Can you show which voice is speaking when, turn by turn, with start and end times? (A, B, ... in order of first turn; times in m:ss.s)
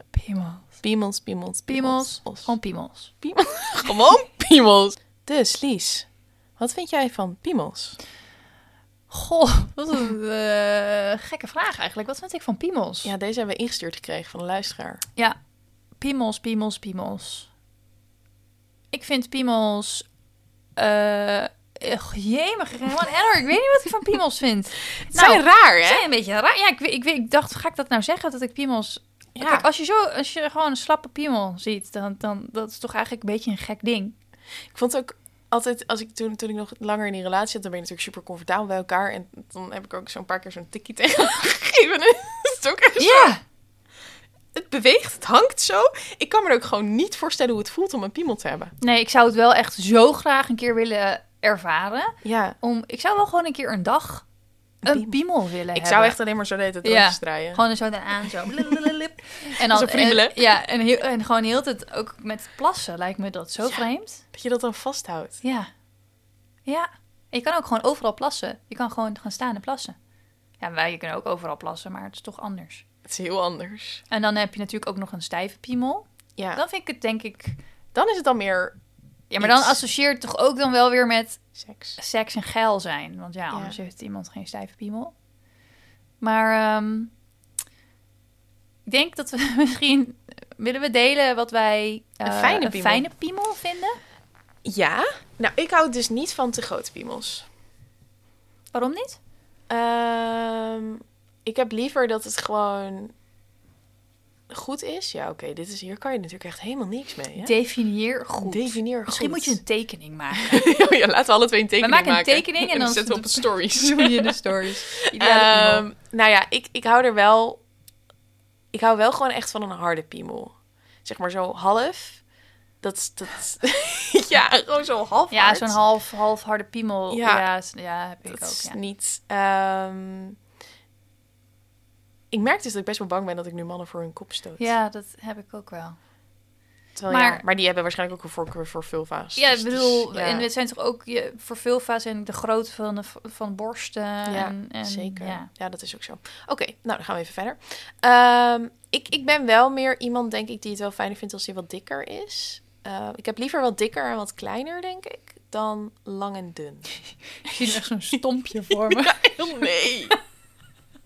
0:00.1-0:00.8 A
0:00.8-0:02.5 B
0:01.7-0:03.1 A
0:03.2-0:08.0 B
0:09.1-0:13.1 A
0:13.0-0:15.0 B
0:16.0-0:17.5 A
0:18.9-0:20.0 A
0:20.8-0:34.2 A
0:25.0-0:26.0 B
0:29.4-0:29.6 B
0:34.7-0:43.3 B
0:43.0-0:43.4 A
0:44.5-0:48.7 B
0:48.8-0:54.2 A
0:52.2-0:52.6 B
0:54.8-0:55.1 B
0:54.8-0:56.2 A
0:55.7-0:57.6 B
0:56.8-1:04.2 A
0:58.2-0:58.8 B
0:59.6-1:00.4 B
1:03.6-1:05.4 B
1:05.4-1:05.7 A
1:06.6-1:09.9 A
1:10.6-1:12.8 A
1:13.0-1:14.0 B
1:14.1-1:17.6 A
1:16.4-1:16.6 B
1:17.9-1:18.8 B
1:19.3-1:21.4 A
1:19.4-1:19.8 B
1:21.5-1:22.0 B
1:22.0-1:25.1 A
1:23.5-1:23.8 B
1:26.2-1:27.1 A
1:28.8-1:34.0 A
1:32.2-1:33.0 B
1:34.6-1:37.5 B
1:38.7-1:39.2 A
1:39.7-1:43.1 B
1:44.5-1:47.5 B
1:47.4-1:50.6 A
1:48.4-1:49.6 B
1:50.3-1:57.6 B
1:51.8-1:55.8 A
1:58.7-2:02.2 B
2:02.8-2:05.8 B
2:05.3-2:08.8 A
2:07.1-2:07.4 B
2:08.3-2:10.4 B
2:12.3-2:14.7 B
2:14.6-2:16.0 A
2:17.0-2:20.5 B
2:17.1-2:17.4 A
2:19.4-2:25.5 A
2:24.2-2:36.9 B
2:37.4-2:39.6 A
2:38.8-2:40.2 B